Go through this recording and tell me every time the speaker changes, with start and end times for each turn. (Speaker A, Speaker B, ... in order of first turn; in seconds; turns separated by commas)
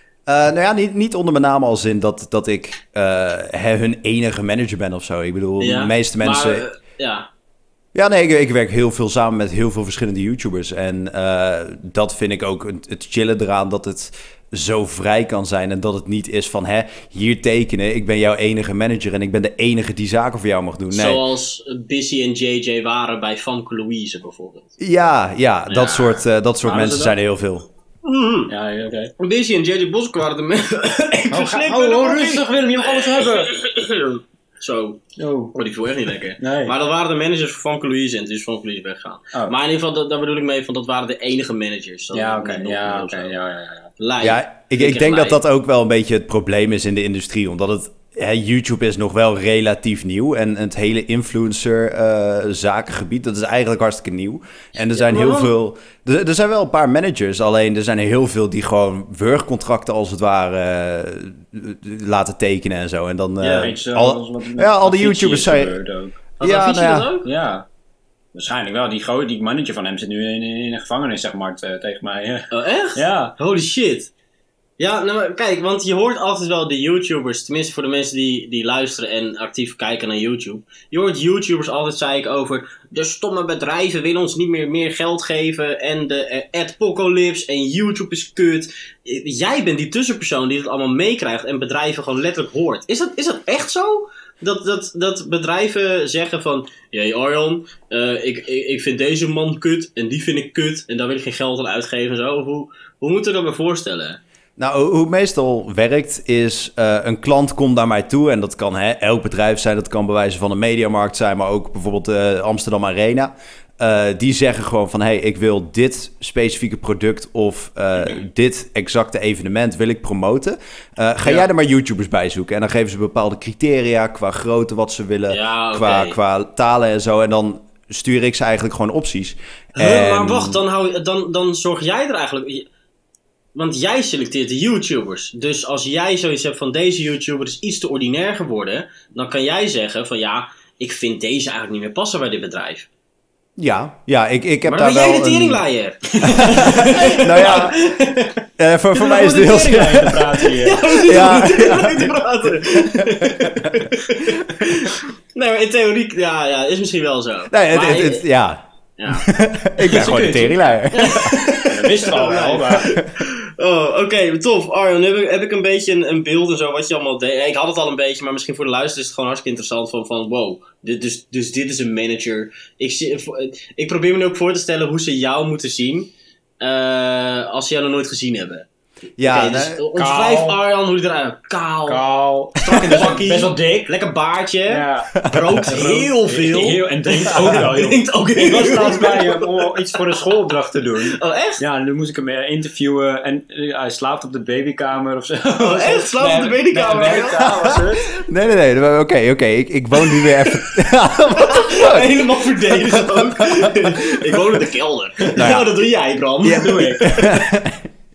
Speaker A: 0.3-6.6, Speaker B: 5.6-7.3, Speaker A: 8.0-21.2, Speaker B: 20.9-24.7, Speaker A: 24.8-27.7, Speaker B: 25.7-26.2, Speaker C: 26.6-27.1, Speaker B: 28.1-28.5, Speaker C: 28.5-29.1, Speaker B: 29.2-43.4, Speaker C: 31.3-33.5, Speaker C: 35.2-35.6, Speaker C: 36.4-36.7, Speaker C: 42.1-43.9, Speaker B: 44.0-45.4, Speaker A: 44.2-65.8, Speaker B: 55.0-55.5, Speaker C: 63.4-66.2, Speaker B: 66.4-67.3, Speaker A: 66.4-67.1, Speaker C: 67.2-67.7, Speaker C: 68.3-73.3, Speaker B: 72.5-74.1, Speaker B: 74.8-104.2, Speaker A: 104.6-130.6, Speaker B: 125.3-126.2, Speaker B: 129.8-132.7, Speaker B: 133.6-142.9, Speaker A: 143.6-145.6, Speaker B: 144.7-148.3, Speaker A: 146.2-147.8, Speaker C: 146.4-146.9, Speaker A: 148.6-150.4, Speaker C: 148.9-151.0, Speaker B: 150.6-158.3, Speaker A: 151.1-153.8, Speaker A: 157.5-161.3, Speaker B: 159.0-159.3, Speaker C: 159.8-162.9, Speaker B: 160.9-178.7, Speaker A: 179.2-179.8, Speaker B: 179.2-182.0, Speaker C: 179.9-180.6, Speaker C: 181.9-183.9, Speaker B: 182.7-190.0, Speaker C: 184.7-198.1, Speaker A: 185.2-185.6, Speaker B: 191.0-191.6, Speaker B: 195.6-197.5, Speaker A: 197.4-203.9, Speaker B: 201.4-207.4, Speaker A: 205.4-205.7, Speaker A: 206.4-207.9, Speaker C: 206.6-207.3